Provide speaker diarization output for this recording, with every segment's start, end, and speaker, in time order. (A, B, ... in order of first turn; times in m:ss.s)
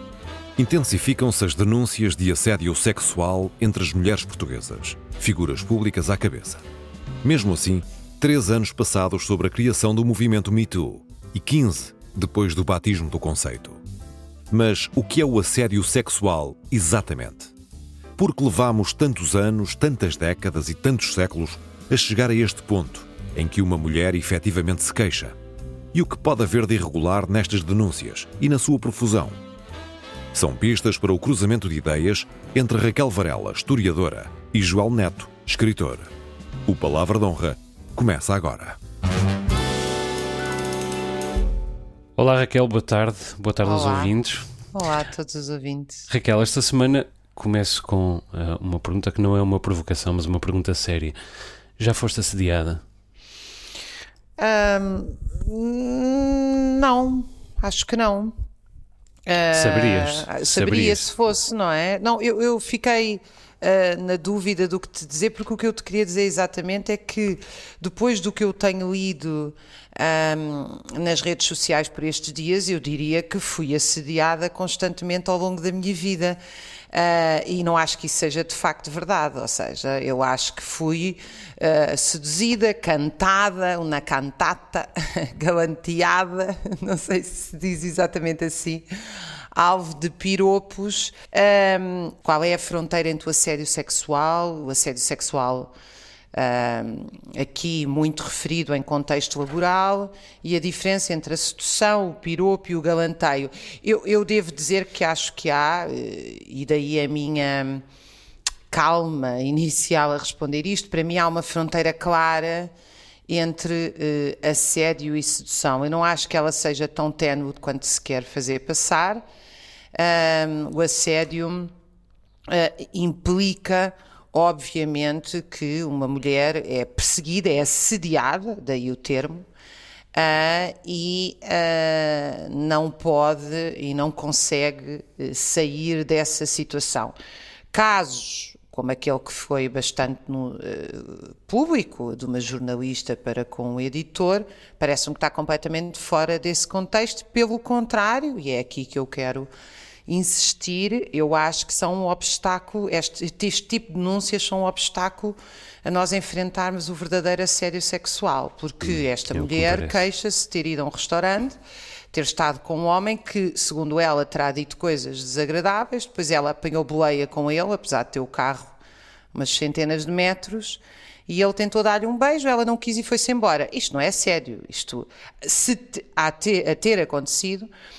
0:00.6-0:06.6 A
0:07.2-0:13.8 A
0:14.5-0:17.5 A
0:18.2-0:25.4 A
0:25.9-0:29.4 A
0:30.3-0:36.1 A
0:36.7-0:38.8 A
0:42.2-0:44.5 B
0:43.6-0:44.1 C
0:44.7-0:46.1 C
0:46.1-0:51.2 B
0:51.8-0:52.8 B
0:54.4-0:58.3 C
0:59.3-1:16.4 C
0:59.5-1:01.1 B
1:16.9-1:28.8 C
1:29.5-1:35.7 C
1:36.3-1:47.8 C
1:48.7-1:52.7 C
1:53.3-1:59.2 C
1:59.9-2:01.7 C
2:02.5-2:09.4 C
2:10.1-2:17.2 C
2:17.7-2:29.5 C
2:30.1-2:41.6 C
2:38.8-2:40.0 B
2:42.1-2:48.8 C
2:49.3-2:57.7 C